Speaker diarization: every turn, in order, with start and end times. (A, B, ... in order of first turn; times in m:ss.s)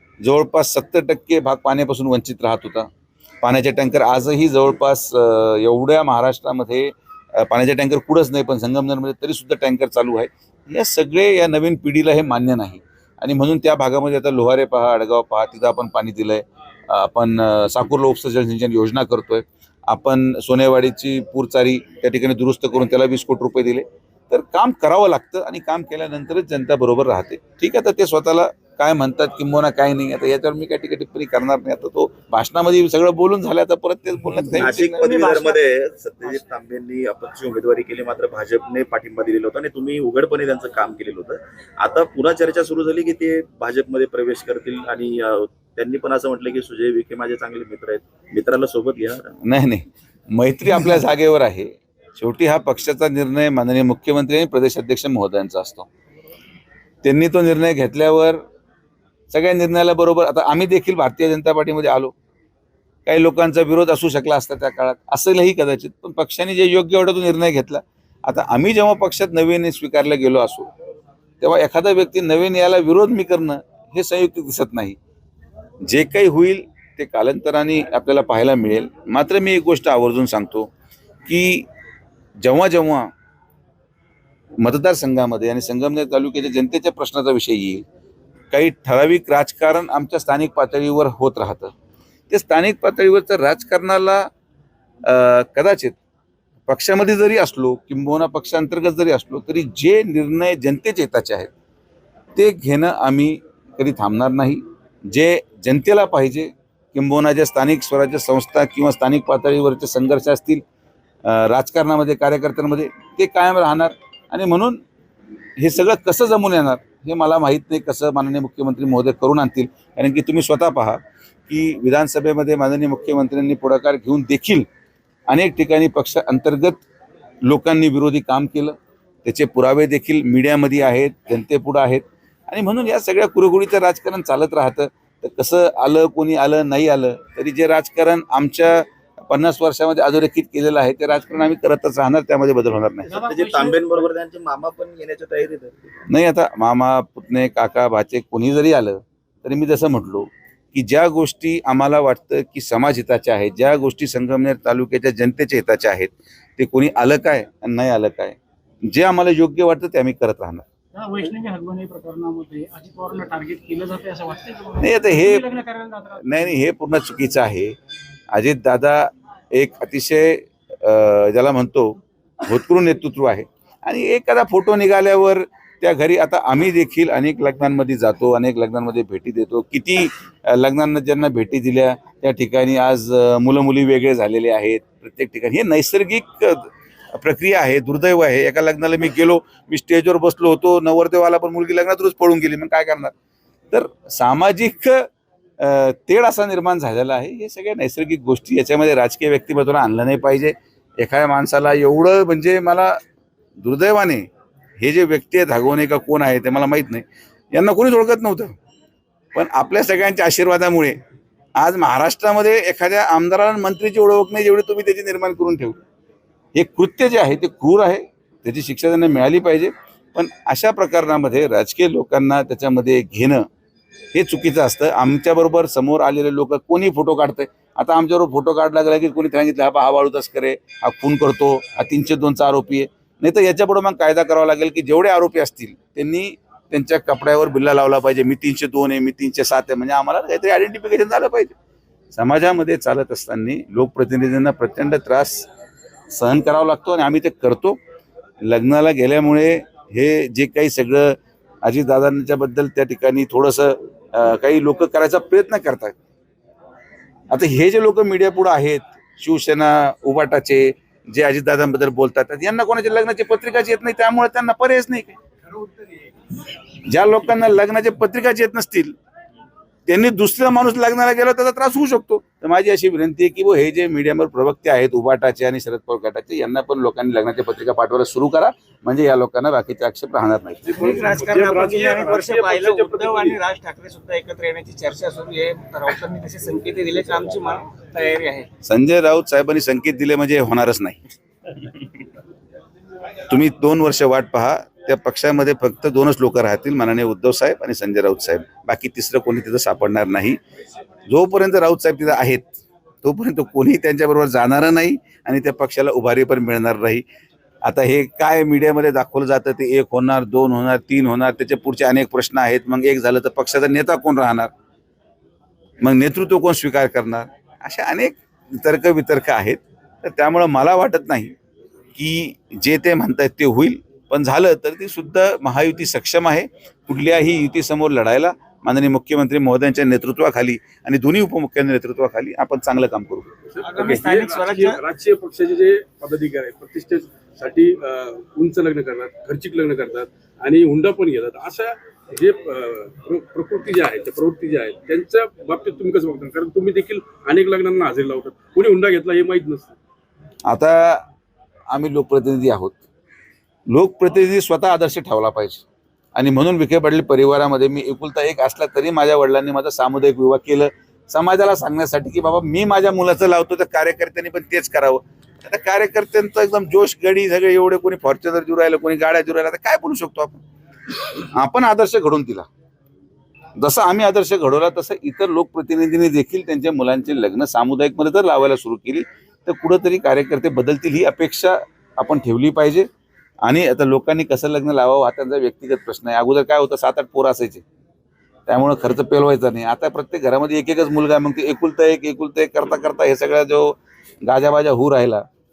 0:00.2-0:02.9 A
0:03.4-0:35.0 A
0:34.6-0:49.3 B
0:34.9-0:35.6 C
0:49.4-0:55.9 A
0:57.0-0:58.4 A
0:59.3-1:02.1 A
1:03.0-1:10.7 A
1:11.4-1:15.0 A
1:15.8-1:20.7 A
1:21.2-1:21.7 A
1:22.4-1:23.1 A
1:24.6-1:27.8 A
1:28.5-1:31.7 A
1:32.3-1:34.3 A
1:35.0-1:36.0 A
1:36.7-1:41.5 A
1:42.4-1:50.6 A
1:51.2-1:54.8 A
1:55.6-2:04.6 A
2:05.3-2:06.8 A
2:07.4-2:23.2 A
2:23.1-2:24.0 D
2:23.2-2:25.9 B
2:26.1-2:40.6 A
2:40.9-2:46.6 D
2:44.8-2:45.4 A
2:46.2-2:47.7 A
2:48.3-3:13.1 A
3:13.7-3:15.1 A
3:15.6-3:23.0 A
3:23.6-3:24.3 A
3:24.8-3:28.6 A
3:29.3-3:31.0 A
3:31.6-3:35.8 A
3:36.5-3:43.4 A
3:44.1-4:01.5 A
4:02.1-4:05.5 A
4:06.1-4:07.8 A
4:08.4-4:15.9 A
4:17.3-4:25.2 A
4:26.9-4:28.9 A
4:29.9-4:40.6 A
4:40.7-4:43.4 E
4:40.8-4:48.5 C
4:48.6-4:51.0 A
4:51.5-4:51.9 A
4:53.3-5:00.4 A
5:01.1-5:02.5 A
5:03.0-5:07.0 A
5:07.6-5:14.5 A
5:15.8-5:21.3 A
5:22.0-5:33.3 A
5:33.5-5:49.8 E
5:33.6-5:34.8 C
5:50.4-5:51.0 A
5:51.7-5:52.8 A
5:53.7-6:10.4 A
6:11.2-6:12.5 A
6:13.6-6:22.8 A
6:23.4-6:27.6 A
6:28.5-6:35.2 A